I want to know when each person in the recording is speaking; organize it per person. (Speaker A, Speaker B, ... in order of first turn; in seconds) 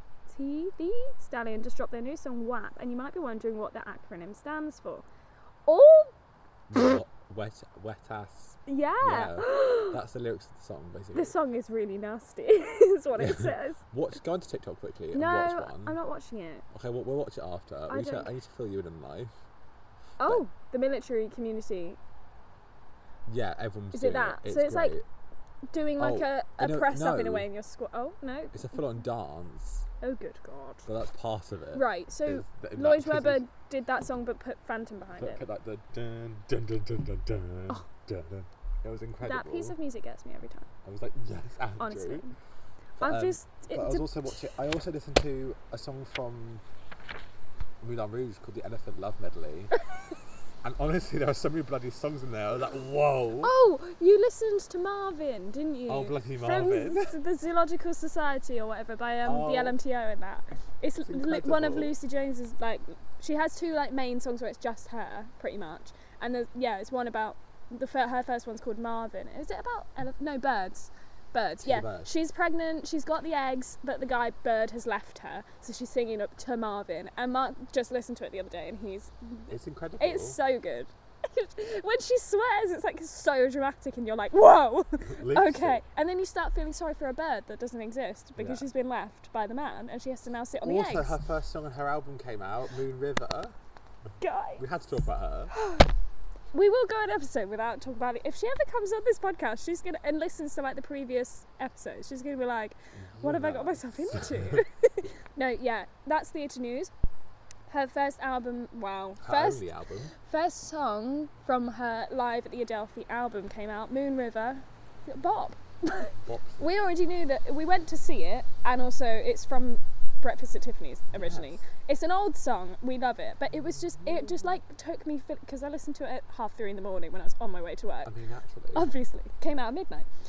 Speaker A: 0.3-5.0, 5.7-6.1, 8.7-10.0, 11.1-13.8, 15.1-16.6, 17.9-18.3, 20.2-22.0, 23.9-24.9, 25.7-28.6, 30.0-30.9, 31.7-35.4, 39.2-40.7, 41.8-42.3, 43.0-44.1, 53.4-91.2, 94.2-94.6, 95.5-95.9, 96.5-106.9, 107.7-109.7, 110.2-128.1, 128.7-130.1
Speaker B: 6.7-11.3, 13.2-16.0, 16.7-19.4, 23.2-25.0, 26.0-27.5, 28.5-29.9, 30.8-33.4, 35.2-39.7, 40.8-42.2, 43.0-46.6, 47.8-49.7, 50.6-53.5, 55.9-57.2, 59.2-59.8, 61.0-61.9, 71.6-72.1, 79.5-80.4, 85.1-85.8, 88.4-88.7, 90.6-93.5, 94.6-95.5, 103.0-104.6, 109.2-110.1, 116.2-116.7, 121.1-121.6, 123.8-124.4, 128.0-128.9